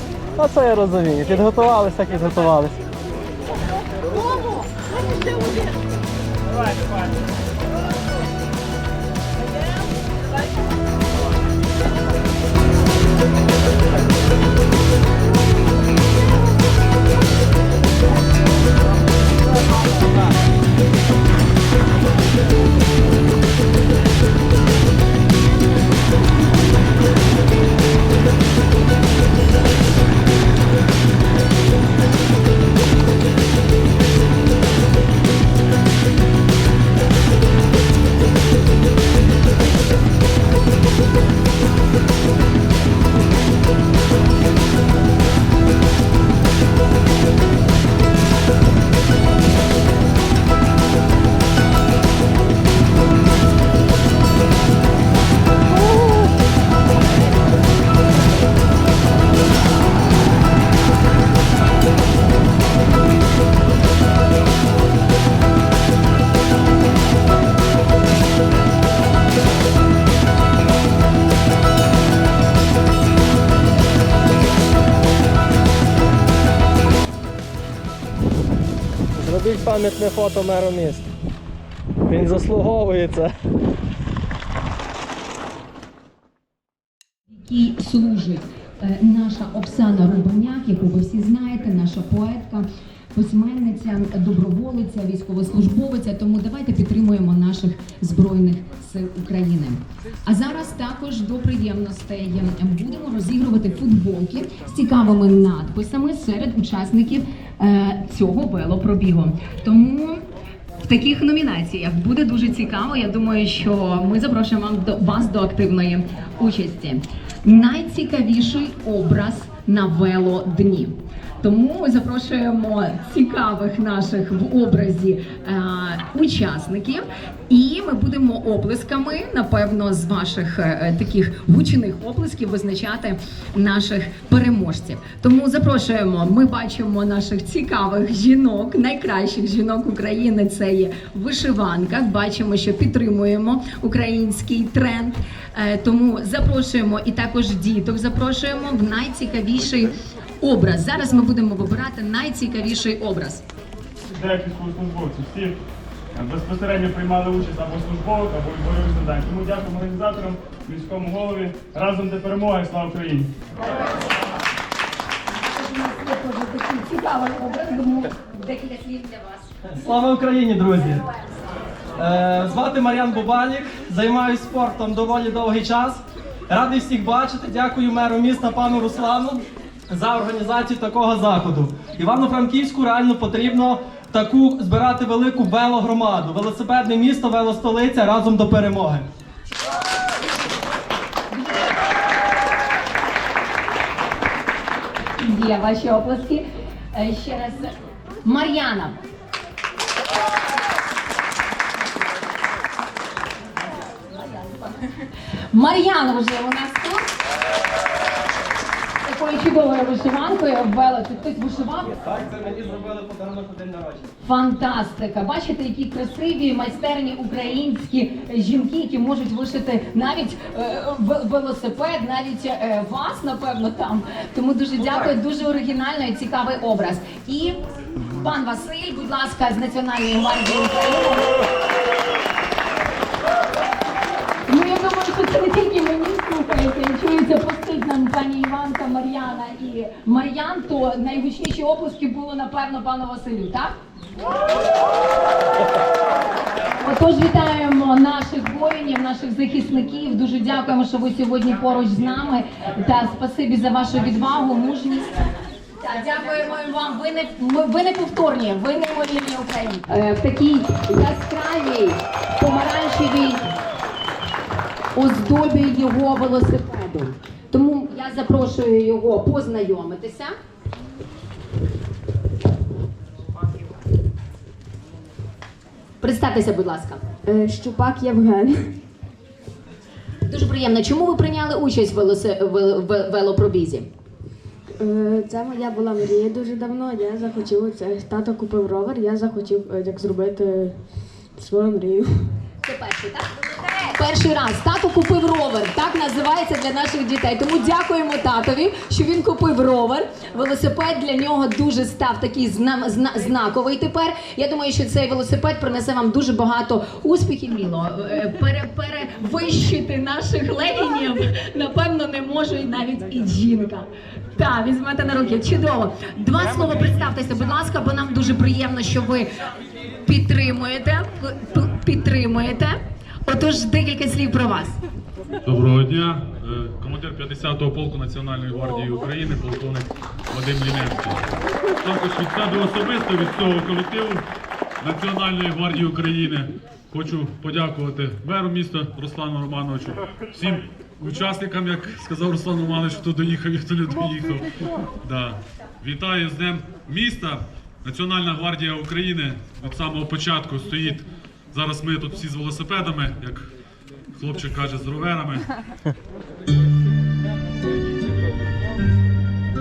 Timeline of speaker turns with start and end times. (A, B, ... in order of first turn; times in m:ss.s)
0:00.4-0:02.8 A
1:19.1-1:21.1 A
1:22.1-1:23.3 A
1:27.3-1:50.2 B
1:50.8-2:33.4 B
2:34.1-2:35.6 C
2:36.2-2:43.3 C
2:45.4-2:49.5 B
2:49.7-2:51.0 A
2:52.0-3:09.1 A
3:11.3-3:11.8 B
3:15.2-3:19.0 B
3:24.0-3:27.1 B
3:29.0-3:32.0 B
3:32.0-3:34.1 A
3:34.2-3:51.4 B
3:54.5-4:03.8 B
4:06.8-4:15.2 B
4:15.8-4:23.5 B
4:25.0-4:30.4 B
4:36.0-4:37.0 B
4:37.3-4:38.7 D
4:40.3-4:43.9 B
4:44.8-4:52.3 D
4:52.6-5:19.3 B
5:20.0-5:24.8 B
5:25.4-5:31.3 E
5:31.8-5:34.2 E
5:34.8-5:53.5 E
5:54.1-5:55.5 E